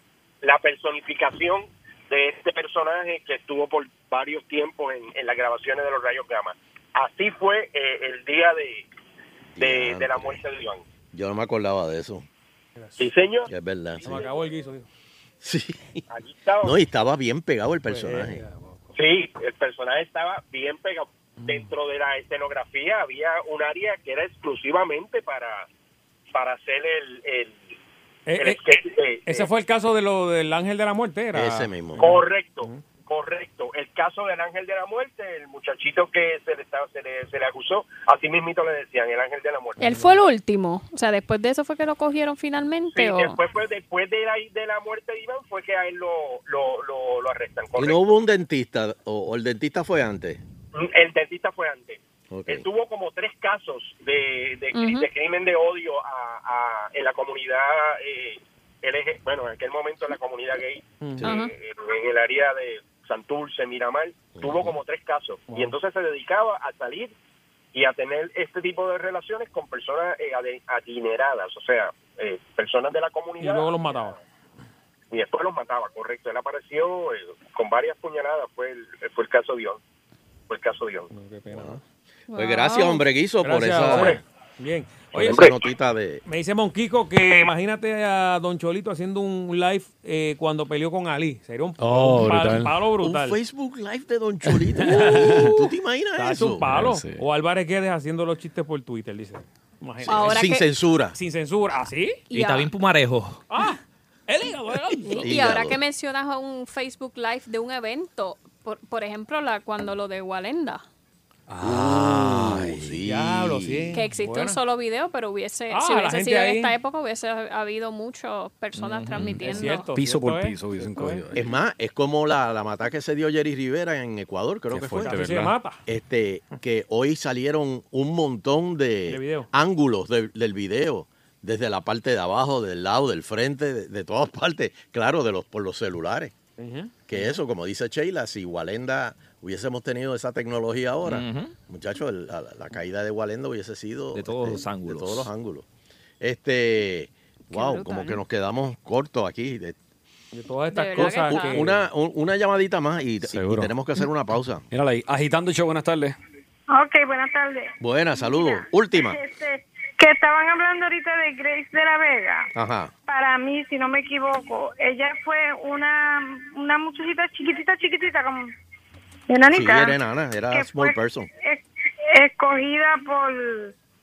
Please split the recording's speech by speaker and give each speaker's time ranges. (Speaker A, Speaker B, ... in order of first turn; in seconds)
Speaker A: 0.4-8.9, 9.6-10.8, 13.0-13.5, 16.1-16.8, 19.0-25.7, 26.3-27.8, 28.4-29.5, 32.0-39.8, 42.9-48.0, 50.7-67.1, 67.7-74.0, 75.1-79.8, 80.5-81.1
Speaker B: 9.6-10.4, 11.1-12.3, 13.5-14.3, 15.4-16.0, 16.6-18.4, 31.3-32.1, 47.8-50.4, 52.3-52.7, 64.3-64.7, 81.5-81.8, 82.3-84.2, 85.1-86.2, 93.0-96.7, 100.0-101.2, 105.2-105.8, 111.6-114.0, 121.3-125.3, 125.9-136.3, 137.1-145.7, 146.2-149.8, 151.0-154.7, 157.8-159.2, 162.6-162.9, 169.5-171.3
Speaker C: 12.8-13.1, 14.0-14.9, 17.9-18.9, 21.4-21.7, 28.3-32.9, 61.0-61.3, 65.5-65.8, 73.4-74.2, 81.1-81.8, 83.4-85.5, 86.3-93.4, 94.9-95.5, 96.2-100.5, 101.2-102.2, 103.5-105.3, 113.0-114.6, 115.7-116.7, 119.4-121.3, 125.0-125.8, 129.1-129.5, 136.6-137.2, 150.3-151.8
Speaker D: 39.8-43.4, 54.7-55.1, 61.2-61.5, 82.3-83.0, 100.1-100.7, 102.3-102.7, 105.0-110.8, 113.9-119.9, 147.5-148.2, 150.7-151.7
Speaker E: 91.8-92.8, 94.5-95.6, 96.7-97.2, 111.5-112.9, 119.2-121.4, 124.7-125.6, 153.2-153.7, 154.7-156.2
Speaker F: 102.3-103.4, 118.8-119.3, 141.1-141.5, 144.1-145.3
Speaker G: 156.7-162.5, 163.1-168.5, 169.3-170.0, 170.5-171.6, 172.1-173.7